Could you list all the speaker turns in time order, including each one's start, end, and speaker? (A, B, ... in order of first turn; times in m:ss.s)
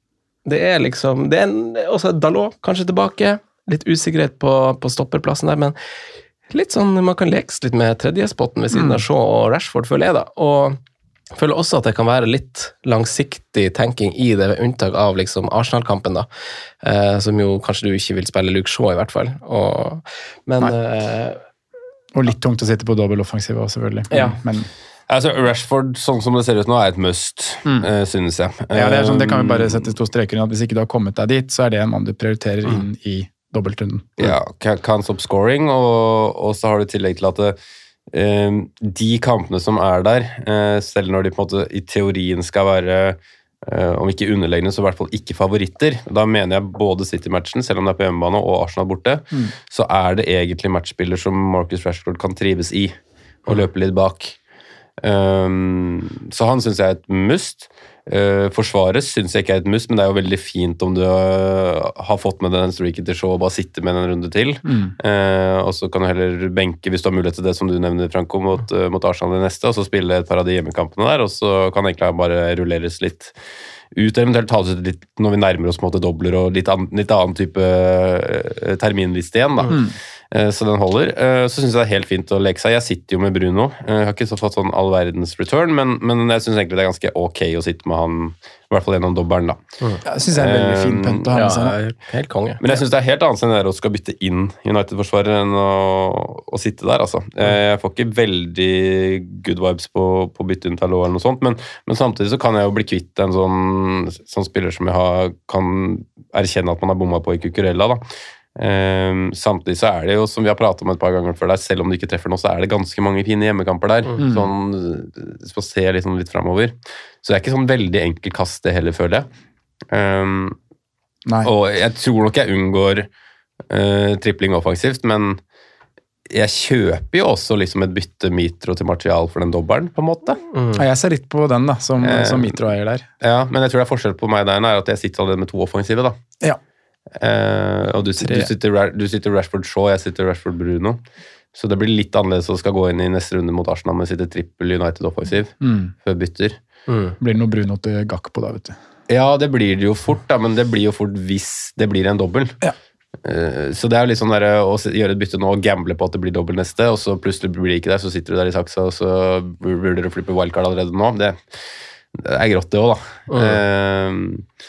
0:00.5-0:05.8 A
0:06.5-0:10.8 A
0:08.7-0:09.0 B
0:11.4-0:16.3 A
0:16.8-0:21.4 A
0:22.1-0:24.7 B
0:24.1-0:24.4 A
0:25.1-0:30.0 C
0:28.7-0:34.4 B
0:34.2-0:37.6 C
0:38.1-0:53.0 C
0:53.5-0:54.4 C
0:55.0-1:13.4 C
1:04.7-1:04.9 B
1:13.9-1:29.6 C
1:30.0-1:31.8 B
1:30.3-1:31.3 C
1:31.3-1:32.6 A
1:32.6-1:48.0 C
1:48.6-1:59.3 C
1:54.2-1:54.5 B
1:59.9-2:00.6 C
2:01.4-2:03.1 C
2:03.7-2:05.4 C
2:06.3-2:10.4 C
2:10.5-2:10.8 A
2:10.8-2:13.1 B
2:12.0-2:12.6 C
2:13.2-2:16.2 C
2:17.2-2:21.0 C
2:18.2-2:18.5 B
2:21.6-2:26.6 C
2:25.6-2:25.9 B
2:26.9-2:27.2 A
2:27.2-2:28.8 B
2:29.1-2:32.6 C
2:33.2-2:41.4 C
2:42.2-2:44.4 C
2:43.3-2:43.6 A